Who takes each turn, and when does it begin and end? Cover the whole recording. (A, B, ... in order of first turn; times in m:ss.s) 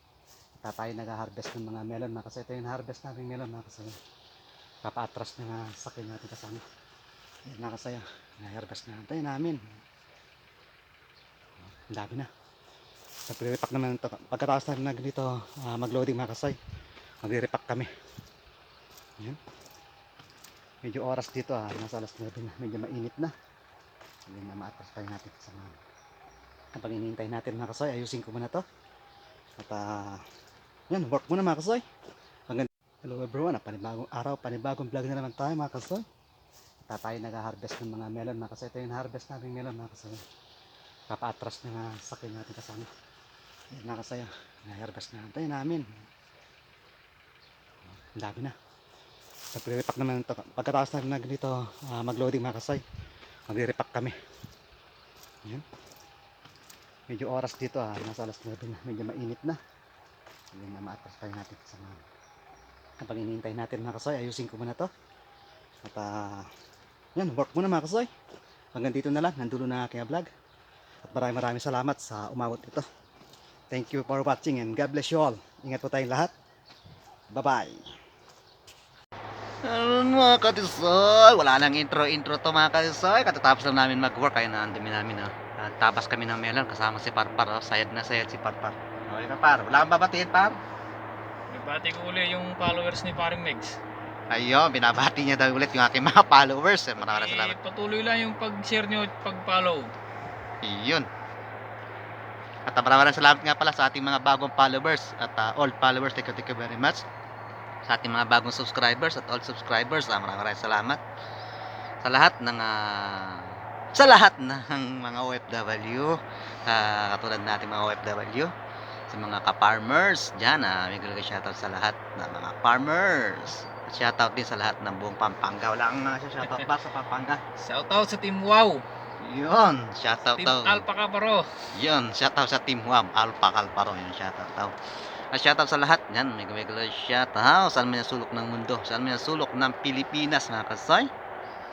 0:00.6-0:04.0 A
0:04.8-0:06.6 A
0:07.5-0:09.6 A
0:11.9-0:12.3 A
0:13.3-0:16.6 A
0:17.2-0:17.9 A
0:20.8-0:23.3 A
0:24.3-0:25.8 A
0:26.8-0:28.6 A
0:29.6-0:30.2 A
0:30.9-0:31.8 A
0:32.5-0:36.0 A
0:36.9-0:40.2 A
0:41.1-0:42.9 A
0:43.7-0:45.9 A
0:48.2-0:48.5 A
0:49.5-0:52.8 A
0:53.5-0:54.2 A
0:57.1-0:59.6 A
1:00.5-1:02.0 A
1:03.0-1:04.9 A
1:05.8-1:06.5 A
1:07.2-1:08.1 A
1:08.8-1:10.3 A
1:11.0-1:12.9 A
1:13.7-1:16.3 A
1:17.3-1:17.9 A
1:19.6-1:30.6 B
1:31.5-1:33.8 C
1:34.3-1:37.6 B
1:37.0-1:39.9 C
1:40.6-1:41.1 B
1:42.7-1:47.1 B
1:47.9-1:51.0 B
1:52.0-1:58.5 B
1:59.1-2:07.4 B
2:07.6-2:08.8 C
2:09.2-2:10.8 B
2:10.4-2:11.5 C
2:11.7-2:14.7 B
2:15.3-2:21.1 B